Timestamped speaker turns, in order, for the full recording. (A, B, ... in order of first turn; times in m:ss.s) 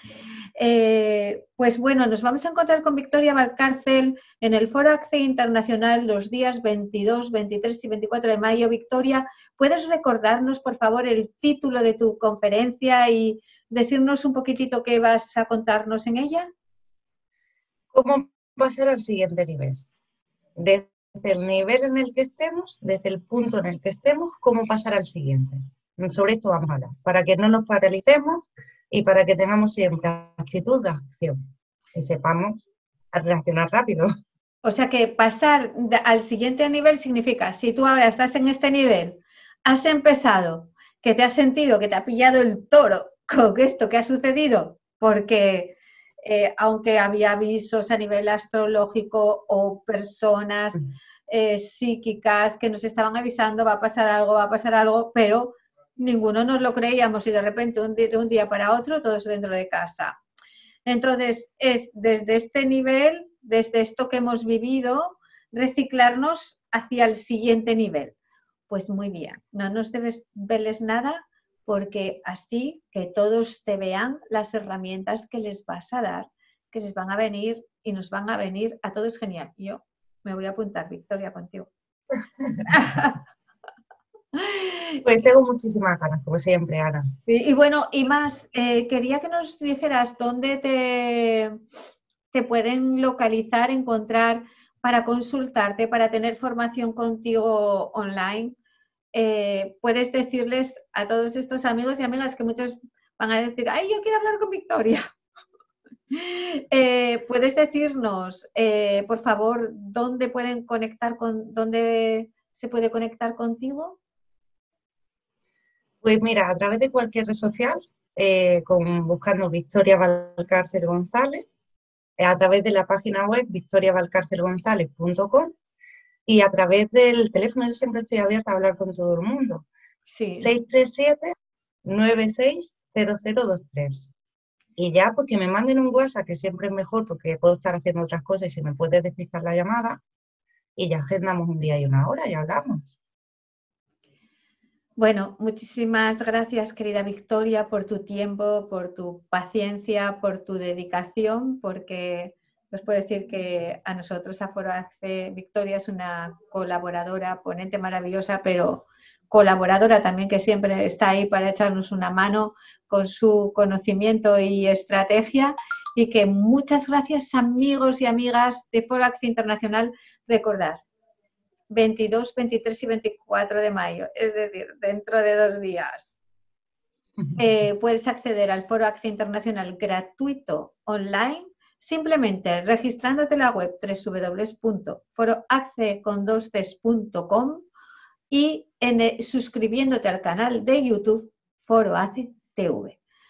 0:00.6-0:16.5 A
0:17.9-0:19.8 B
0:20.6-0:31.4 B
0:31.9-0:34.1 B
0:34.6-1:00.1 A
1:00.8-1:08.1 A
1:08.7-1:21.7 A
1:22.7-1:23.2 A
1:24.3-1:25.0 A
1:25.0-1:27.0 B
1:27.3-1:31.6 A
1:32.3-1:38.6 A
1:39.1-1:45.0 A
1:46.1-1:54.0 A
1:56.0-2:01.5 B
2:02.2-2:05.5 B
2:06.3-2:09.6 B
2:10.0-2:10.5 A
2:10.4-2:11.3 B
2:11.8-2:14.1 B
2:14.8-2:20.0 B
2:20.8-2:22.9 B
2:25.0-2:50.8 A
2:51.7-2:56.2 A
2:57.4-3:07.6 A
3:08.3-3:13.0 A